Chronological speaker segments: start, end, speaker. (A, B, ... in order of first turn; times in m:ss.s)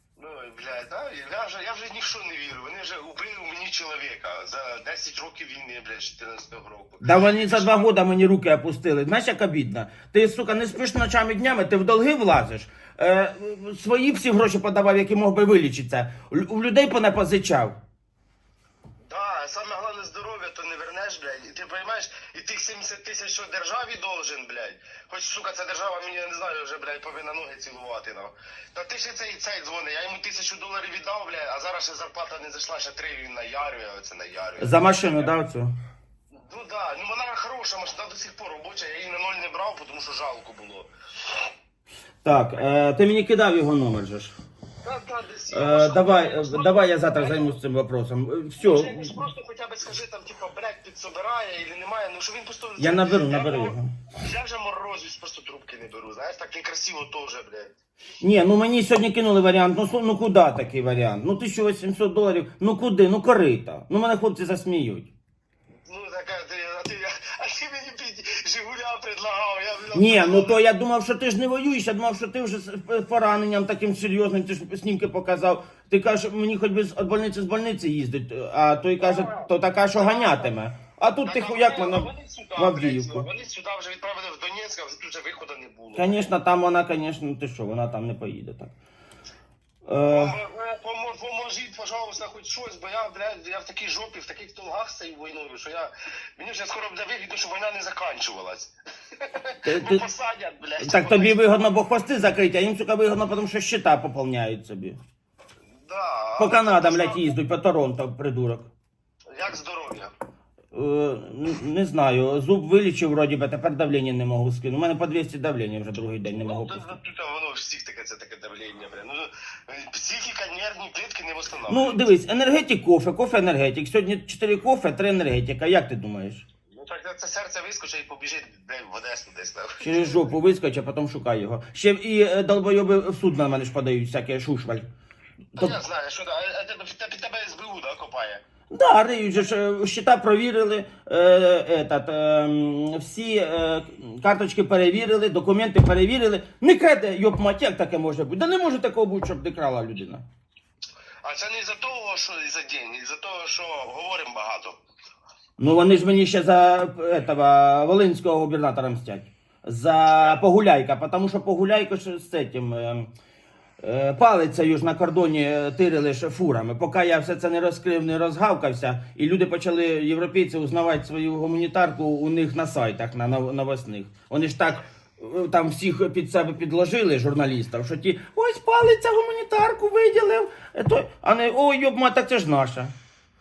0:00.2-0:08.0 A
0:07.0-0:17.8 B
0:19.0-0:35.3 A
0:34.6-0:35.7 B
0:36.3-0:40.9 A
0:42.2-0:44.3 B
0:44.8-0:47.6 A
0:45.5-0:49.2 B
0:48.6-0:57.7 A
0:52.8-0:53.9 B
0:58.2-1:05.1 B
1:05.8-1:10.6 A
1:09.9-1:23.3 B
1:19.0-1:20.5 A
1:21.2-1:26.3 A
1:25.9-1:28.7 B
1:29.8-1:30.4 B
1:30.0-1:41.7 A
1:39.6-1:40.0 B
1:40.8-1:45.0 B
1:45.8-1:47.2 A
1:46.4-1:48.7 B
1:49.3-1:50.1 A
1:50.7-1:57.0 B
1:56.3-2:02.1 A
2:01.7-2:06.4 B
2:06.7-2:10.3 A
2:09.8-2:14.8 B
2:15.6-2:18.4 A
2:18.7-2:30.2 B
2:31.2-2:34.8 A
2:35.6-2:43.1 B
2:40.2-2:40.4 A
2:43.8-3:02.9 B